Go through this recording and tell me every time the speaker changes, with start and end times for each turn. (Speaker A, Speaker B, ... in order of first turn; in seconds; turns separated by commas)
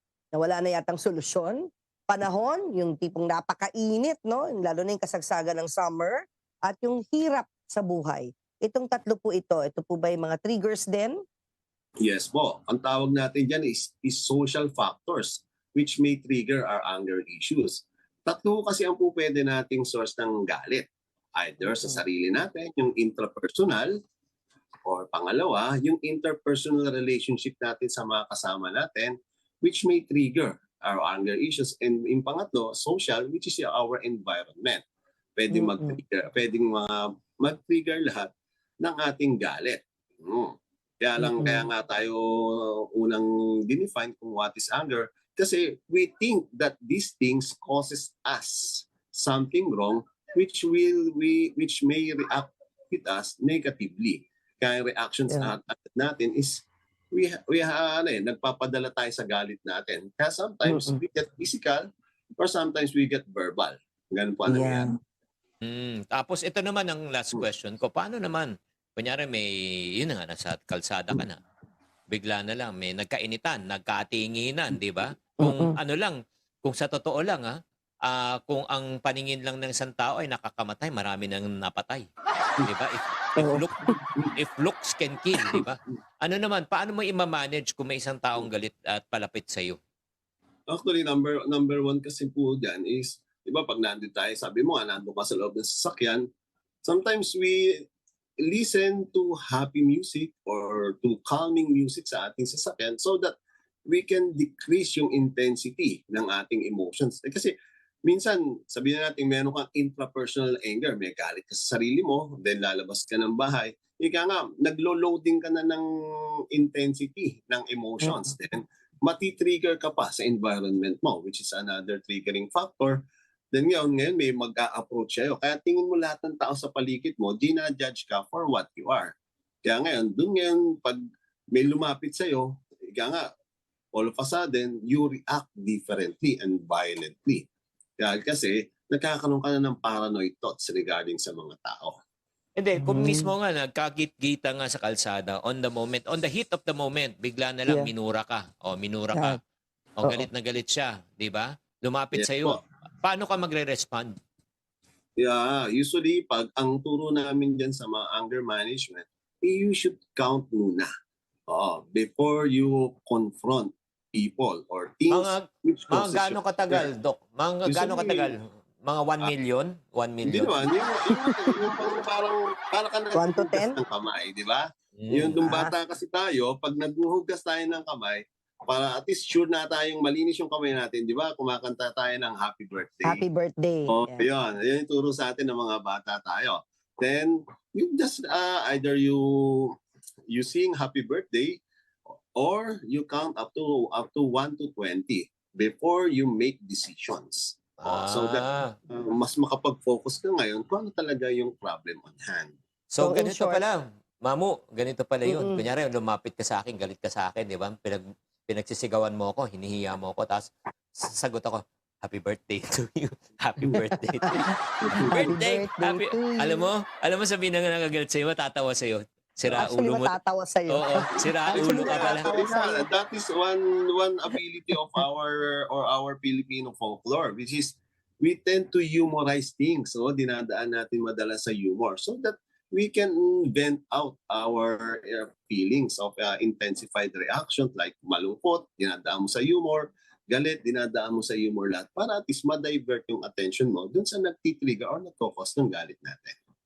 Speaker A: 0.3-11.2, Speaker B: 12.0-23.9, Speaker B: 24.8-34.8, Speaker B: 35.4-61.9, Speaker A: 35.5-36.0, Speaker A: 41.2-41.7, Speaker A: 60.6-61.0, Speaker B: 62.4-64.9, Speaker A: 64.5-64.9, Speaker C: 65.6-71.4, Speaker C: 72.1-82.0, Speaker A: 75.4-75.8, Speaker C: 82.6-89.8, Speaker A: 83.4-83.9, Speaker B: 90.7-96.2, Speaker B: 96.8-97.9, Speaker B: 98.4-103.3, Speaker B: 103.9-107.5, Speaker B: 108.0-115.9, Speaker B: 116.5-123.0, Speaker A: 118.0-118.3, Speaker B: 123.5-129.1, Speaker B: 129.6-131.0, Speaker B: 131.5-133.2, Speaker B: 133.9-137.4, Speaker B: 138.0-142.0, Speaker C: 142.6-149.4, Speaker A: 142.8-143.3, Speaker C: 150.0-154.1, Speaker B: 152.1-152.6, Speaker B: 155.2-160.9, Speaker B: 161.5-166.9, Speaker C: 165.1-170.5, Speaker B: 167.6-168.3, Speaker B: 170.2-183.2, Speaker A: 171.2-171.5, Speaker A: 173.1-173.8, Speaker C: 175.0-175.4, Speaker A: 175.4-175.7, Speaker A: 183.0-184.2, Speaker B: 183.9-189.7, Speaker B: 190.3-191.6, Speaker B: 192.3-202.5, Speaker C: 197.8-198.7, Speaker C: 202.9-210.5, Speaker A: 203.0-203.6, Speaker A: 205.2-205.6, Speaker C: 211.0-220.1, Speaker B: 214.8-215.3, Speaker A: 215.1-216.7, Speaker A: 219.5-222.9, Speaker C: 220.7-222.3, Speaker B: 221.2-246.3